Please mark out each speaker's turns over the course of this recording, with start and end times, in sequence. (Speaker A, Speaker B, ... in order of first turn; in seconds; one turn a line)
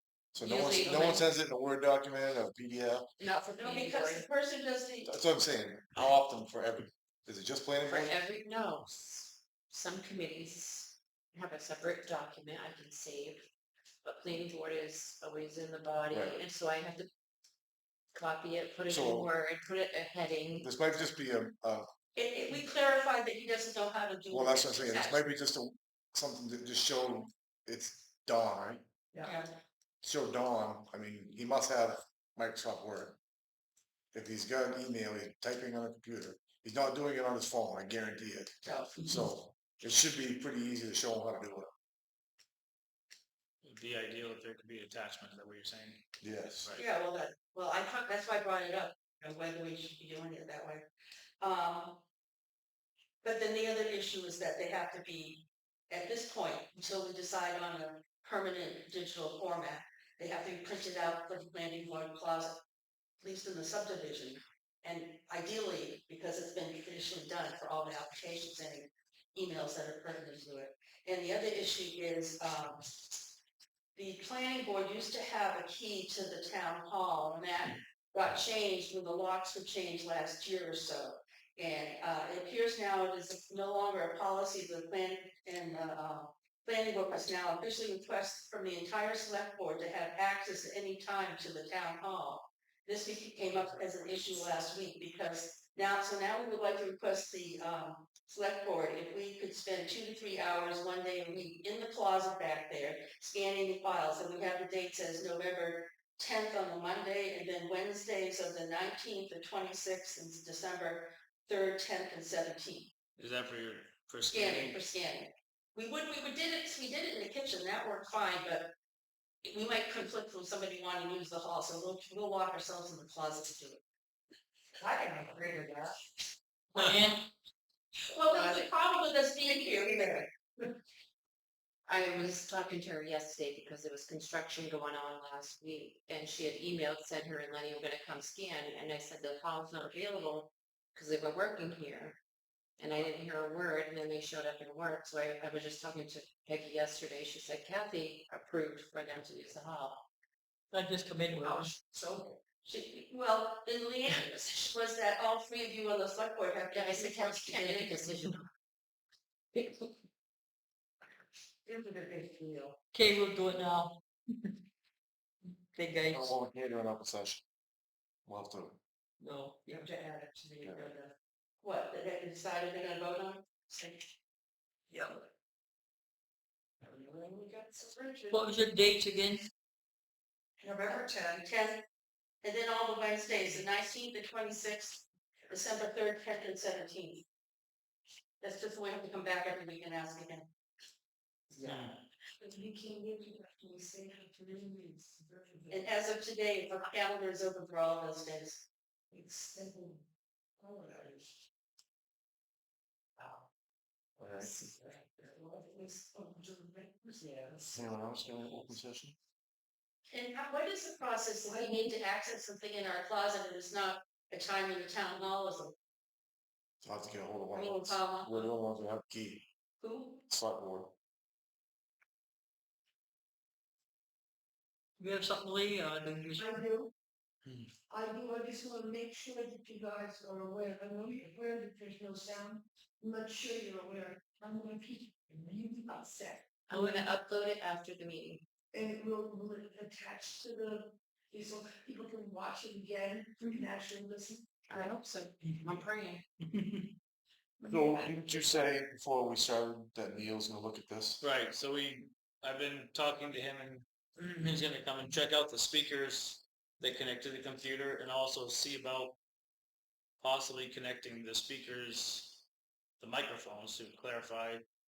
Speaker A: 0.3-3.1
Speaker B: 0.4-1.3
Speaker B: 3.2-4.3
Speaker C: 3.6-5.1
Speaker A: 5.1-8.2
Speaker B: 7.8-13.5
Speaker B: 14.0-17.1
Speaker A: 16.1-16.4
Speaker B: 18.1-20.7
Speaker A: 18.9-19.3
Speaker A: 20.6-21.9
Speaker C: 22.2-25.2
Speaker A: 24.3-28.8
Speaker C: 29.2-29.5
Speaker A: 30.0-33.2
Speaker A: 34.1-41.7
Speaker C: 38.6-39.0
Speaker D: 43.6-46.0
Speaker A: 46.2-46.7
Speaker C: 46.8-50.9
Speaker C: 51.4-52.0
Speaker C: 53.2-62.6
Speaker C: 63.2-72.8
Speaker C: 74.0-112.9
Speaker D: 113.2-114.8
Speaker C: 114.3-118.7
Speaker C: 119.4-123.8
Speaker E: 126.8-127.3
Speaker C: 128.1-130.3
Speaker B: 128.3-128.7
Speaker B: 131.9-142.2
Speaker B: 142.8-150.0
Speaker E: 150.7-151.8
Speaker C: 152.0-158.1
Speaker B: 156.7-158.5
Speaker B: 159.6-159.9
Speaker E: 162.9-164.0
Speaker E: 165.7-166.3
Speaker A: 166.1-167.4
Speaker A: 168.3-168.8
Speaker E: 169.2-169.9
Speaker F: 170.0-170.6
Speaker A: 170.6-170.9
Speaker C: 171.6-174.1
Speaker F: 176.8-178.4
Speaker E: 178.3-179.5
Speaker F: 180.6-181.4
Speaker C: 180.8-181.8
Speaker C: 182.4-187.2
Speaker C: 188.4-190.5
Speaker F: 191.6-195.9
Speaker D: 191.6-191.9
Speaker C: 195.7-198.7
Speaker F: 199.1-200.0
Speaker F: 200.6-201.4
Speaker F: 203.2-203.5
Speaker F: 204.2-207.8
Speaker A: 204.2-204.5
Speaker A: 207.7-209.2
Speaker C: 210.1-215.8
Speaker F: 211.5-211.8
Speaker A: 216.8-219.5
Speaker C: 217.5-218.5
Speaker C: 219.8-220.2
Speaker A: 220.3-220.9
Speaker E: 225.0-226.6
Speaker F: 226.4-226.9
Speaker F: 227.9-236.4
Speaker B: 236.7-238.4
Speaker E: 236.7-237.1
Speaker F: 238.7-244.4
Speaker B: 244.7-246.2
Speaker F: 247.7-248.1
Speaker A: 247.7-251.2
Speaker D: 251.2-259.2
Speaker D: 260.2-262.4
Speaker D: 263.0-264.6